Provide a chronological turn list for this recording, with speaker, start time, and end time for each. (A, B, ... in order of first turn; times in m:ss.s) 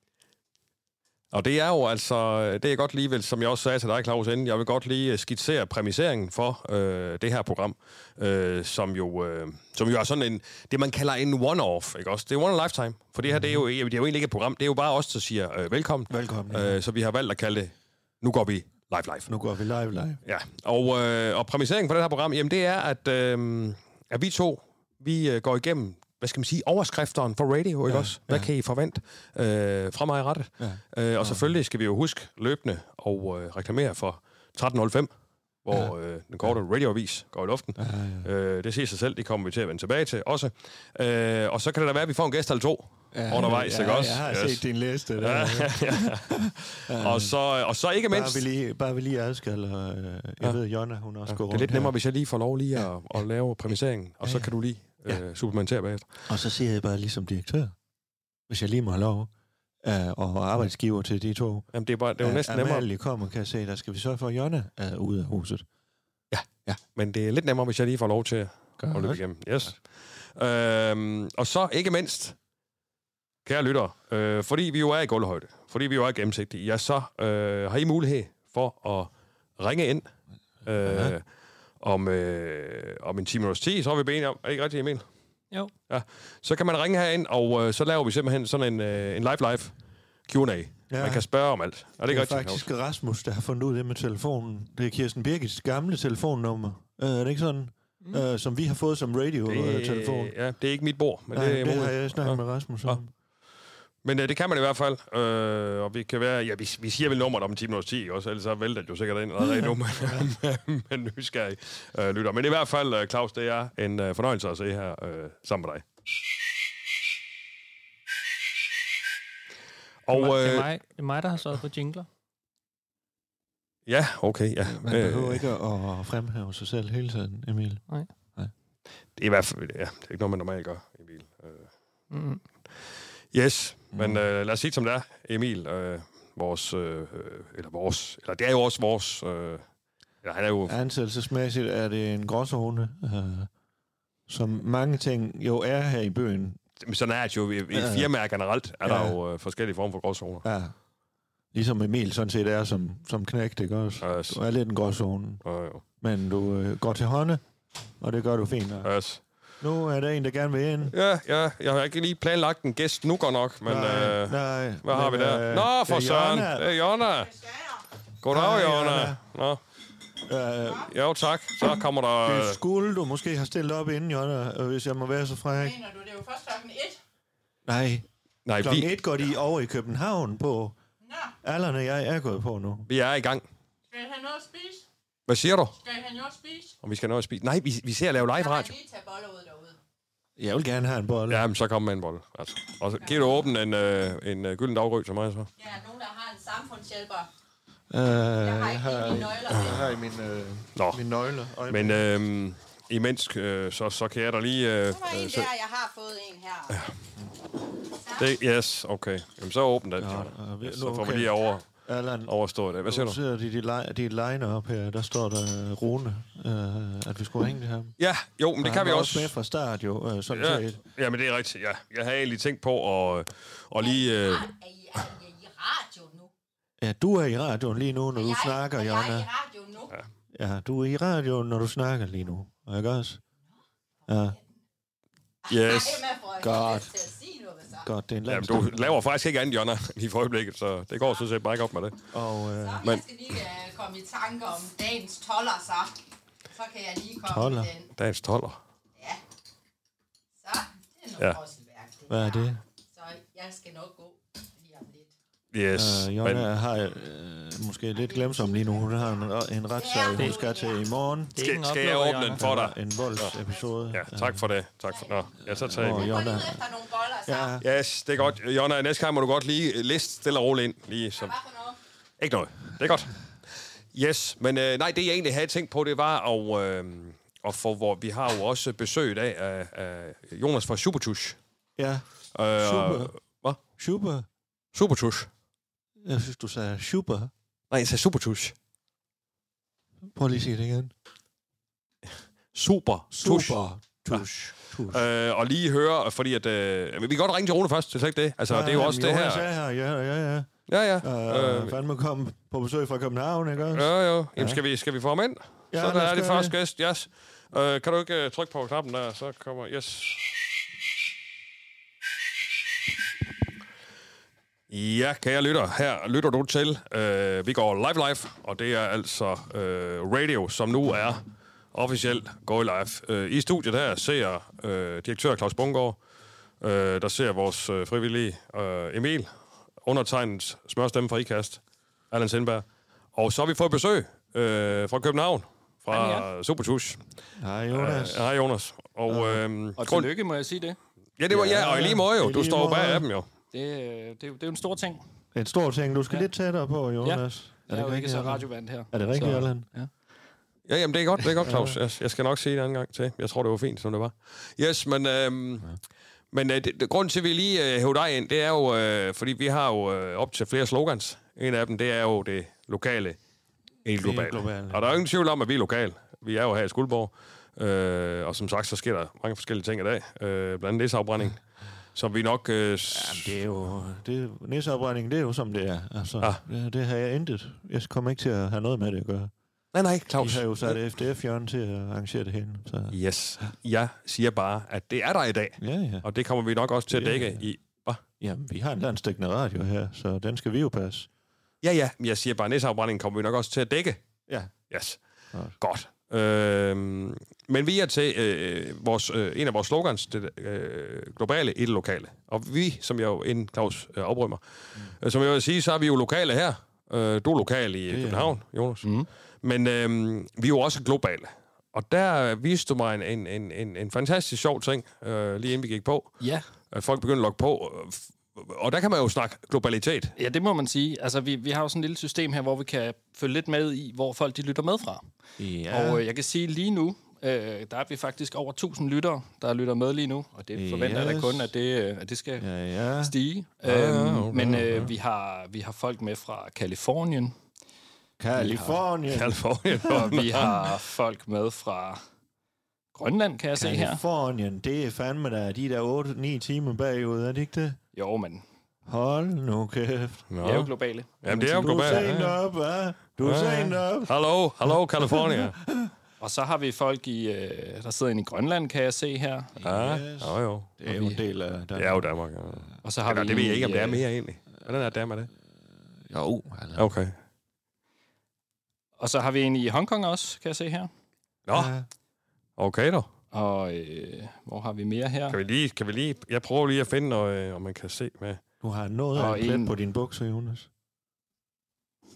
0:01.3-0:19.3 A
0:13.2-0:13.6 B
0:16.1-0:16.8 B
0:19.3-0:20.2 B
0:20.2-0:35.1 A
0:27.9-0:28.5 B
0:30.6-0:31.5 B
0:35.6-0:44.6 A
0:37.8-0:38.3 B
0:43.1-0:47.3 B
0:45.2-0:48.4 A
0:48.1-0:51.9 B
0:51.3-0:56.1 A
0:52.7-0:53.2 B
0:54.2-0:54.5 B
0:56.3-0:57.7 B
0:58.5-0:59.3 B
0:59.8-1:01.7 B
1:01.7-1:02.9 A
1:02.2-1:05.7 B
1:06.3-1:12.4 A
1:08.8-1:09.2 B
1:13.4-1:20.1 A
1:20.6-1:21.2 A
1:20.8-1:21.1 B
1:21.8-1:25.0 A
1:25.9-1:29.7 A
1:30.2-1:32.7 A
1:30.9-1:31.2 B
1:32.1-1:40.3 B
1:39.5-1:43.0 A
1:41.3-1:43.1 B
1:44.0-1:55.8 A
1:49.4-1:50.3 B
2:00.0-2:00.7 A
2:00.1-2:02.1 C
2:03.9-2:05.4 A
2:04.6-2:08.5 B
2:09.2-2:11.7 A
2:12.1-2:12.4 C
2:13.3-2:19.6 A
2:13.9-2:14.2 B
2:20.2-2:20.8 A
2:20.7-2:23.5 B
2:24.3-2:26.6 B
2:26.8-2:30.4 A
2:27.7-2:28.1 B
2:28.8-2:29.2 B
2:30.4-2:30.7 B
2:31.5-2:35.4 B
2:34.0-2:34.4 A
2:35.4-2:35.8 A
2:36.0-2:37.4 B
2:38.0-2:38.9 B
2:38.8-2:39.2 A
2:39.6-2:40.9 B
2:40.9-2:47.3 A
2:43.6-2:46.7 B
2:47.4-2:47.7 D
2:48.2-2:49.6 A
2:48.3-2:49.2 B
2:50.2-2:50.9 B
2:50.9-2:52.6 A
2:52.2-2:55.8 B
2:55.6-2:57.0 D
2:57.7-2:58.1 B
2:58.4-2:58.9 A
2:58.6-3:00.8 B
3:01.0-3:01.3 D
3:01.4-3:02.9 B
3:02.9-3:03.4 A
3:03.9-3:04.8 D
3:05.3-3:05.8 A
3:05.8-3:06.8 D
3:06.8-3:08.7 A
3:08.3-3:09.8 D
3:10.4-3:11.4 B
3:11.3-3:15.5 A
3:13.0-3:13.4 D
3:15.6-3:17.3 D
3:17.9-3:22.0 B
3:18.4-3:19.8 D
3:20.8-3:21.0 A
3:21.7-3:25.5 A
3:24.9-3:26.8 D
3:28.0-3:28.3 D
3:28.2-3:31.7 A
3:30.0-3:31.3 B
3:31.8-3:37.9 B
3:32.2-3:33.2 A
3:38.0-3:39.4 A
3:38.6-3:40.8 B
3:40.3-3:44.5 A
3:43.8-3:46.3 D
3:46.8-3:49.3 B
3:48.1-3:49.9 D
3:50.3-3:53.2 B
3:54.1-3:54.4 B
3:54.1-3:54.4 D
3:55.4-3:57.9 D
3:55.5-3:56.0 A
3:56.4-3:56.9 B
3:57.8-3:59.0 B
3:58.3-4:02.0 A
4:02.1-4:02.8 B
4:02.6-4:05.9 D
4:06.5-4:07.9 D
4:07.2-4:07.7 B
4:08.0-4:08.6 A
4:10.4-4:15.1 D
4:12.1-4:12.6 B
4:15.5-4:16.5 A
4:15.7-4:21.4 B
4:18.1-4:18.8 D
4:19.8-4:20.8 D
4:20.2-4:20.4 C
4:21.4-4:22.4 C
4:21.4-4:23.3 A
4:22.4-4:24.4 B
4:23.9-4:26.1 A
4:24.9-4:25.3 D
4:25.5-4:26.6 B
4:25.9-4:27.6 D
4:27.2-4:27.6 B
4:27.6-4:31.3 A
4:31.1-4:31.8 D
4:32.2-4:33.1 A
4:33.9-4:41.4 A
4:41.8-4:43.1 B
4:42.4-4:43.6 A
4:43.8-4:44.2 B
4:44.7-4:45.3 A
4:46.0-4:47.3 B
4:47.7-4:48.5 A
4:50.1-4:50.9 B
4:52.5-4:53.6 A
4:53.1-4:55.0 B
4:54.9-4:59.5 A
4:58.5-5:04.6 B
5:00.7-5:01.8 A
5:03.7-5:10.3 A
5:05.7-5:06.6 B
5:14.7-5:26.0 A
5:26.6-5:29.3 A
5:29.8-5:31.6 A
5:32.1-5:37.0 A
5:35.9-5:36.3 E
5:37.4-5:38.3 B
5:37.7-5:40.1 A
5:39.1-5:39.4 B
5:39.8-5:40.8 E
5:41.2-5:43.3 A
5:41.3-5:43.1 B
5:43.5-5:45.0 E
5:45.3-5:49.7 B
5:47.0-5:49.9 E
5:50.7-5:55.7 A
5:51.4-5:51.8 B
5:56.3-6:03.2 A
6:03.8-6:11.4 A
6:04.0-6:05.0 B
6:12.0-6:13.3 A
6:12.9-6:19.3 B
6:19.7-6:20.8 A
6:20.2-6:23.0 B
6:22.9-6:28.0 A
6:25.6-6:26.1 B
6:26.9-6:27.5 B
6:28.2-6:31.1 B
6:31.6-6:34.0 A
6:34.7-6:35.0 A
6:35.6-6:44.4 A
6:45.0-6:48.8 A
6:47.9-6:48.4 B
6:48.8-6:49.1 E
6:49.4-6:56.2 A
6:56.2-6:56.5 E
6:56.7-7:00.1 A
7:00.2-7:05.1 E
7:05.4-7:06.0 B
7:05.7-7:12.5 E
7:10.5-7:11.5 B
7:12.4-7:13.1 B
7:13.0-7:17.3 E
7:13.6-7:14.9 A
7:14.5-7:14.9 B
7:18.2-7:19.9 B
7:18.4-7:18.8 E
7:19.1-7:20.7 A
7:19.9-7:22.0 E
7:22.9-7:24.0 E
7:23.5-7:27.8 B
7:27.9-7:28.4 E
7:28.9-7:30.2 B
7:30.3-7:32.4 A
7:30.4-7:32.1 E
7:31.3-7:34.1 B
7:33.2-7:35.6 A
7:35.0-7:35.9 B
7:36.2-7:39.5 E
7:39.6-7:42.7 B
7:39.6-7:40.7 A
7:40.9-7:41.2 E
7:41.8-7:45.3 A
7:42.8-7:44.0 E
7:46.1-7:46.9 B
7:46.8-7:47.1 A
7:49.0-7:50.9 E
7:51.5-7:51.7 A
7:51.5-7:51.9 B
7:52.6-7:53.1 A
7:53.3-7:55.4 E
7:55.3-7:58.4 A
7:58.6-8:00.7 B
7:59.1-7:59.7 E